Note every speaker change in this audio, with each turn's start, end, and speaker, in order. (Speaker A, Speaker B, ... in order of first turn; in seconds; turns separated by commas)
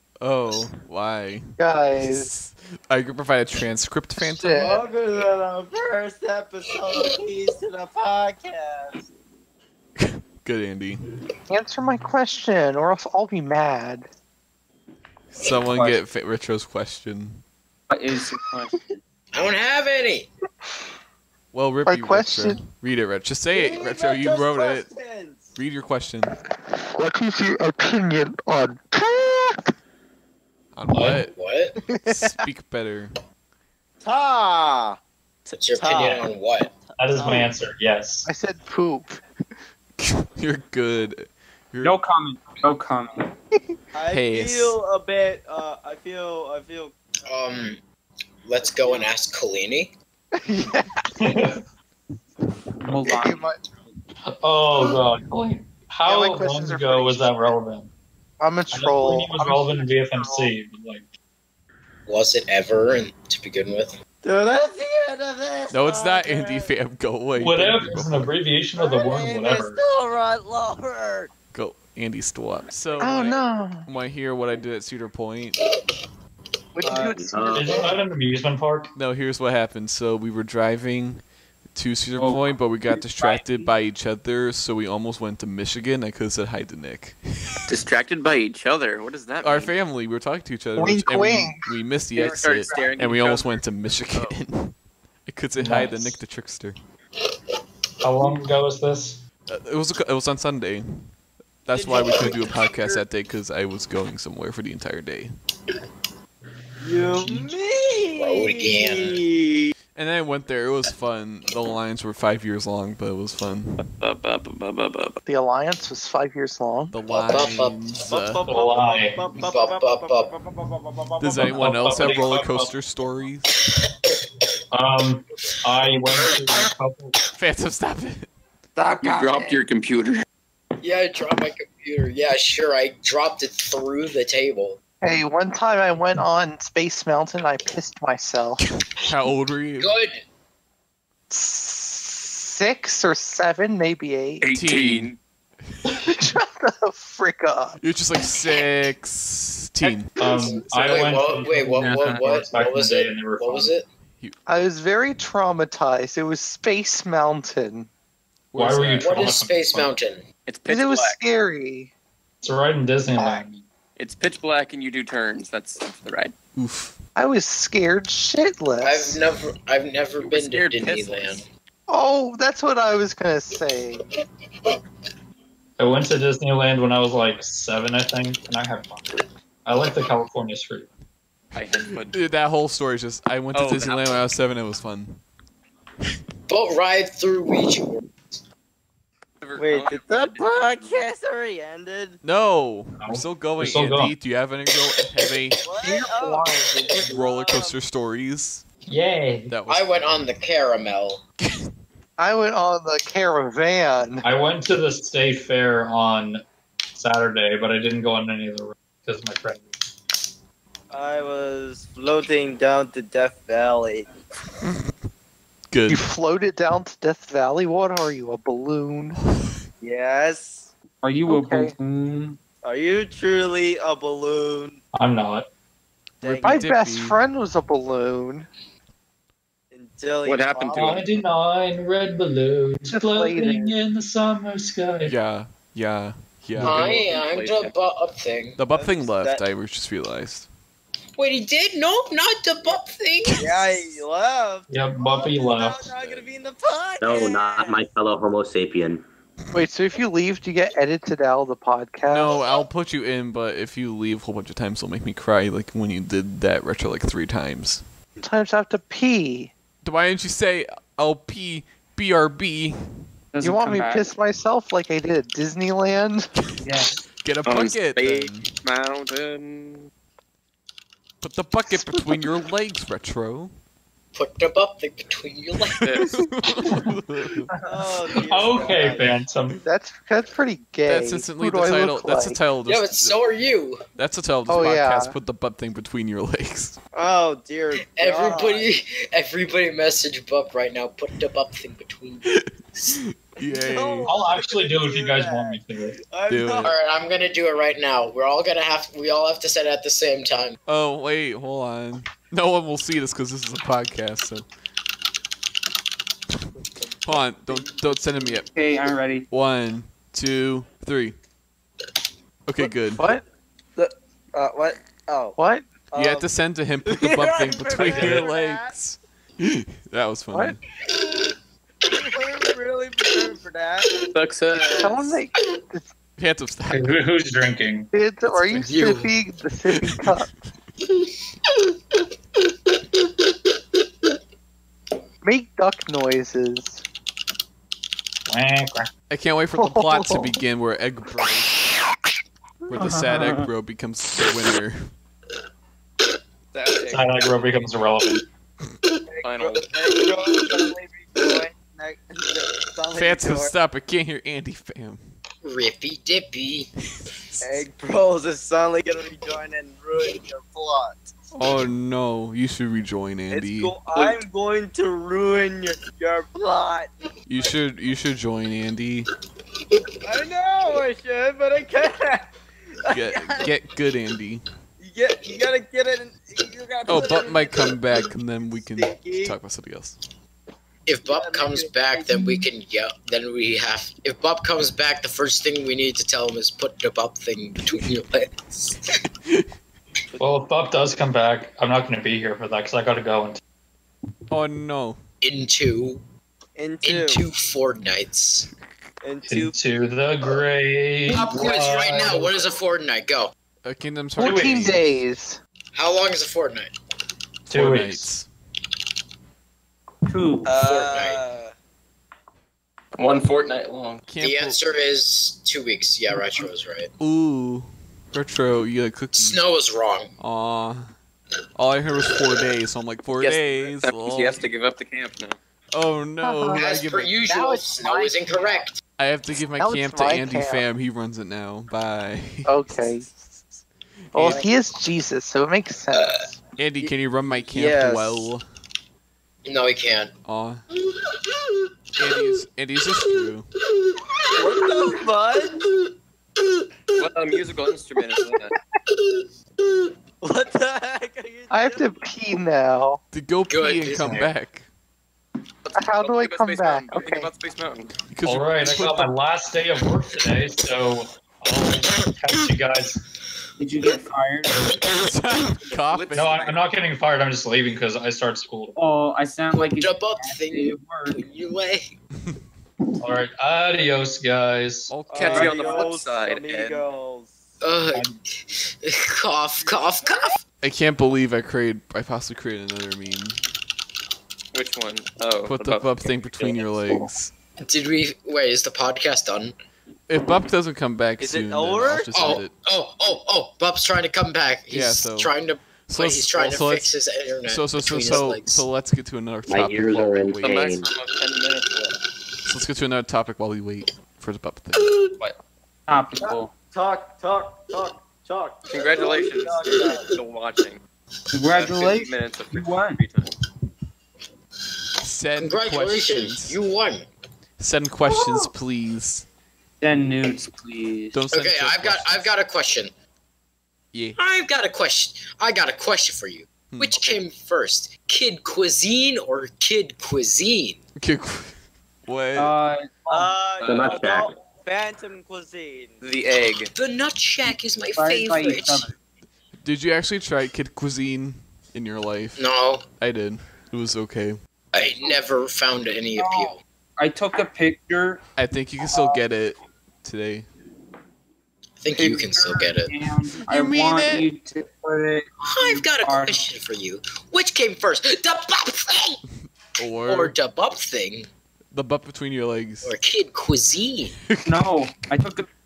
Speaker A: 0.2-4.8, Speaker B: 1.6-2.3, Speaker B: 4.2-4.9, Speaker C: 4.6-9.1, Speaker A: 10.0-11.0, Speaker B: 11.5-14.1, Speaker A: 15.3-17.4, Speaker D: 15.5-16.0, Speaker D: 17.9-19.0, Speaker E: 19.3-20.3, Speaker A: 21.5-24.9, Speaker B: 21.9-22.6, Speaker C: 23.5-25.6, Speaker A: 25.6-26.3, Speaker B: 27.0-29.5, Speaker A: 30.8-31.3, Speaker F: 30.9-31.2, Speaker E: 31.3-31.8, Speaker B: 31.9-32.4, Speaker A: 32.0-33.1, Speaker C: 34.0-35.0, Speaker E: 35.6-36.7, Speaker C: 35.7-36.3, Speaker F: 35.9-36.3, Speaker F: 37.0-38.3, Speaker C: 37.2-37.5, Speaker B: 38.3-39.2, Speaker A: 40.0-42.0, Speaker D: 41.8-43.3, Speaker C: 44.0-47.0, Speaker A: 44.1-44.8, Speaker E: 47.3-47.8, Speaker E: 48.5-49.9, Speaker C: 48.6-49.1, Speaker B: 50.4-51.4, Speaker F: 51.2-51.6, Speaker D: 52.9-53.5, Speaker B: 53.1-53.6, Speaker F: 54.3-57.9, Speaker B: 56.1-57.6, Speaker B: 58.4-60.5, Speaker F: 58.7-61.1, Speaker E: 62.1-64.0, Speaker C: 64.2-66.7, Speaker A: 65.7-68.3, Speaker F: 67.4-69.8, Speaker C: 68.8-71.3, Speaker A: 71.5-75.6, Speaker B: 73.0-73.9, Speaker B: 76.8-78.0, Speaker C: 76.9-77.1, Speaker G: 76.9-77.9, Speaker F: 77.5-78.9, Speaker A: 79.0-81.2, Speaker A: 81.7-87.6, Speaker D: 82.2-82.5, Speaker C: 83.2-83.7, Speaker H: 87.7-89.7, Speaker A: 89.4-94.7, Speaker B: 90.8-91.7, Speaker D: 92.2-92.9, Speaker H: 92.2-94.3, Speaker A: 95.3-96.8, Speaker F: 95.6-96.2, Speaker F: 98.0-99.2, Speaker A: 99.5-101.1, Speaker A: 101.7-105.3, Speaker C: 101.7-103.0, Speaker C: 106.8-109.7, Speaker E: 108.2-109.2, Speaker A: 110.0-113.8, Speaker H: 113.8-115.2, Speaker B: 115.3-116.9, Speaker A: 116.9-118.5, Speaker E: 117.1-117.9, Speaker C: 118.0-122.2, Speaker F: 118.5-119.2, Speaker E: 119.4-120.3, Speaker A: 121.2-123.6, Speaker F: 121.4-122.7, Speaker F: 124.7-127.2, Speaker A: 127.4-128.3, Speaker H: 129.0-130.2, Speaker B: 129.0-129.5, Speaker E: 130.8-134.8, Speaker B: 135.0-138.6, Speaker A: 138.9-139.9, Speaker E: 139.8-140.2, Speaker B: 141.3-144.4, Speaker H: 144.4-145.2, Speaker A: 144.5-145.1, Speaker B: 146.1-147.8, Speaker A: 147.8-151.1, Speaker F: 150.1-153.7, Speaker E: 150.8-153.9, Speaker A: 151.8-152.2, Speaker B: 154.5-157.9, Speaker A: 158.5-159.4, Speaker F: 158.5-159.9, Speaker E: 159.0-160.2, Speaker H: 160.5-161.2, Speaker B: 160.7-161.9, Speaker F: 162.4-163.7, Speaker B: 163.2-163.4, Speaker H: 164.0-166.3, Speaker A: 166.6-167.0, Speaker B: 167.2-169.2, Speaker E: 168.8-171.5, Speaker H: 170.2-171.4, Speaker B: 171.9-174.0, Speaker F: 175.8-180.9, Speaker H: 181.5-182.2, Speaker A: 181.6-185.2, Speaker H: 183.5-184.2, Speaker E: 186.5-188.0, Speaker H: 189.4-190.9, Speaker C: 189.6-192.2, Speaker A: 192.2-195.6, Speaker F: 193.0-194.1, Speaker C: 195.7-197.8, Speaker B: 195.8-197.2, Speaker A: 196.9-198.7, Speaker F: 198.9-199.6, Speaker A: 199.5-200.1, Speaker E: 199.7-201.2, Speaker A: 201.4-201.7, Speaker B: 202.2-204.2, Speaker F: 204.2-206.4, Speaker F: 207.0-209.8, Speaker C: 210.9-214.1, Speaker A: 214.6-214.9, Speaker A: 215.7-216.1, Speaker B: 215.9-219.2, Speaker C: 219.8-220.7, Speaker D: 221.0-222.4, Speaker B: 221.3-221.8, Speaker C: 222.6-224.8, Speaker F: 224.9-225.5, Speaker C: 226.2-226.7, Speaker A: 226.4-227.2, Speaker B: 226.4-228.5, Speaker C: 229.7-231.1, Speaker H: 230.2-231.0, Speaker F: 230.7-235.1, Speaker B: 232.9-233.8, Speaker A: 235.1-237.0, Speaker F: 236.6-236.9, Speaker E: 236.6-238.6, Speaker H: 236.7-237.7, Speaker A: 238.6-240.5, Speaker C: 238.7-239.4, Speaker E: 241.2-243.9, Speaker C: 243.4-247.8, Speaker F: 244.7-245.9, Speaker G: 247.0-249.1, Speaker B: 249.5-252.4, Speaker A: 252.1-257.9, Speaker B: 258.2-259.5, Speaker A: 259.8-262.8, Speaker D: 263.3-264.1, Speaker B: 263.4-266.3, Speaker D: 266.6-267.0, Speaker A: 267.2-268.5, Speaker H: 267.5-269.9, Speaker A: 271.2-273.5, Speaker B: 271.7-272.2, Speaker E: 274.1-275.9, Speaker A: 275.8-277.5, Speaker H: 275.8-276.2, Speaker B: 277.6-277.9, Speaker C: 277.6-279.2, Speaker F: 278.2-279.6, Speaker B: 279.6-282.4, Speaker A: 280.9-283.2, Speaker E: 282.7-283.8, Speaker A: 284.0-286.8, Speaker B: 284.5-285.2, Speaker C: 286.9-288.7, Speaker E: 287.8-292.9, Speaker A: 292.3-294.1, Speaker C: 293.5-296.8, Speaker F: 294.1-295.9, Speaker A: 296.3-296.7, Speaker E: 296.6-300.6, Speaker A: 300.7-304.5, Speaker A: 307.0-308.5, Speaker C: 307.1-308.3, Speaker D: 308.4-309.3, Speaker A: 309.3-311.2, Speaker A: 312.5-313.1, Speaker B: 312.6-313.2, Speaker C: 313.8-315.4, Speaker B: 315.4-315.7, Speaker C: 315.9-316.3, Speaker A: 315.9-320.6, Speaker C: 316.9-318.7, Speaker F: 317.8-318.3, Speaker C: 321.9-324.0, Speaker H: 324.1-325.2, Speaker B: 324.8-325.9, Speaker A: 326.2-327.0, Speaker F: 326.7-327.9, Speaker B: 327.9-330.3, Speaker E: 328.5-329.1, Speaker B: 335.2-336.8, Speaker F: 338.3-338.9, Speaker A: 339.1-341.7, Speaker B: 339.6-340.3, Speaker A: 342.7-344.9, Speaker D: 342.7-343.5, Speaker H: 346.5-347.1, Speaker F: 346.9-348.2, Speaker C: 349.1-353.6, Speaker H: 349.2-350.1, Speaker A: 352.9-355.0, Speaker E: 355.4-356.7, Speaker A: 356.9-357.7, Speaker C: 357.4-361.1, Speaker A: 361.4-363.8, Speaker C: 363.3-366.9, Speaker A: 367.3-369.1, Speaker C: 370.0-372.3, Speaker C: 372.8-373.5, Speaker A: 372.9-374.4, Speaker C: 374.8-378.1, Speaker A: 376.9-380.0, Speaker C: 378.8-379.4, Speaker E: 380.9-388.8, Speaker C: 381.0-382.1, Speaker F: 390.2-393.4, Speaker A: 394.3-395.0, Speaker E: 395.2-396.0, Speaker C: 396.6-397.3, Speaker E: 396.8-398.5, Speaker C: 399.0-399.6, Speaker F: 399.3-402.6, Speaker E: 401.1-403.3, Speaker A: 403.6-405.0, Speaker B: 404.2-405.4, Speaker F: 404.2-404.8, Speaker E: 405.8-406.7, Speaker A: 407.5-408.3, Speaker F: 407.5-408.1, Speaker D: 410.1-410.6, Speaker C: 410.4-411.5, Speaker E: 410.5-411.2, Speaker H: 413.0-414.0, Speaker A: 414.1-414.6, Speaker E: 414.2-416.9, Speaker A: 417.0-419.4, Speaker E: 419.1-420.1, Speaker A: 420.2-420.9, Speaker A: 421.6-424.4, Speaker H: 423.2-425.4, Speaker A: 425.7-427.2, Speaker B: 426.2-426.6, Speaker E: 426.5-428.8, Speaker B: 427.3-428.6, Speaker D: 427.9-428.1, Speaker A: 429.0-433.5, Speaker B: 429.6-430.6, Speaker B: 432.5-433.1, Speaker A: 434.1-434.4, Speaker B: 434.1-436.4, Speaker A: 436.6-438.4, Speaker C: 437.5-438.3, Speaker E: 439.4-440.1, Speaker A: 440.2-440.6, Speaker A: 442.0-443.5, Speaker C: 444.4-445.7, Speaker H: 447.0-448.6, Speaker C: 450.2-452.0, Speaker B: 451.5-453.0, Speaker A: 453.1-454.7, Speaker E: 453.5-454.3, Speaker H: 455.6-457.9, Speaker B: 455.8-457.3, Speaker A: 458.1-459.1, Speaker F: 458.2-463.0, Speaker D: 463.6-464.8, Speaker F: 464.6-464.8, Speaker A: 464.8-466.5, Speaker H: 465.7-466.6, Speaker F: 466.1-468.8, Speaker D: 468.8-471.2, Speaker E: 469.5-471.9, Speaker F: 473.0-474.9, Speaker A: 474.9-475.9, Speaker C: 475.1-477.4, Speaker H: 475.1-476.8, Speaker D: 475.3-475.7, Speaker E: 477.6-480.4, Speaker F: 477.9-478.2, Speaker A: 480.6-483.4, Speaker H: 484.5-486.6, Speaker A: 485.5-487.3, Speaker E: 487.6-489.5, Speaker A: 490.1-492.5, Speaker C: 491.2-492.4, Speaker E: 492.1-498.6, Speaker A: 494.7-495.3, Speaker A: 495.9-496.9, Speaker A: 497.5-500.7, Speaker G: 499.5-500.9, Speaker H: 500.4-502.0, Speaker A: 502.4-505.1, Speaker D: 505.9-506.5, Speaker C: 506.7-510.1, Speaker H: 508.7-510.8, Speaker D: 511.3-513.0, Speaker H: 511.5-513.3, Speaker A: 515.0-516.6, Speaker E: 515.4-517.1, Speaker A: 517.6-519.3, Speaker D: 519.8-521.2, Speaker A: 521.1-522.3, Speaker E: 521.3-522.9, Speaker A: 523.9-524.2, Speaker E: 524.2-530.8, Speaker A: 526.7-527.2, Speaker A: 531.0-531.5, Speaker A: 532.1-532.5, Speaker D: 532.4-533.4, Speaker C: 533.1-536.0, Speaker G: 533.6-534.3, Speaker H: 536.0-536.7, Speaker E: 536.8-538.9, Speaker D: 538.0-538.9, Speaker A: 539.6-542.4, Speaker E: 542.4-542.9, Speaker A: 543.0-544.4, Speaker E: 544.7-546.6, Speaker D: 546.2-548.2, Speaker A: 548.4-550.5, Speaker E: 551.8-552.9, Speaker D: 551.9-556.5, Speaker A: 553.5-554.3, Speaker E: 555.4-559.2, Speaker A: 559.8-560.4, Speaker E: 560.1-561.3, Speaker A: 561.7-562.9, Speaker E: 562.8-564.2, Speaker A: 564.3-564.6, Speaker D: 564.5-565.5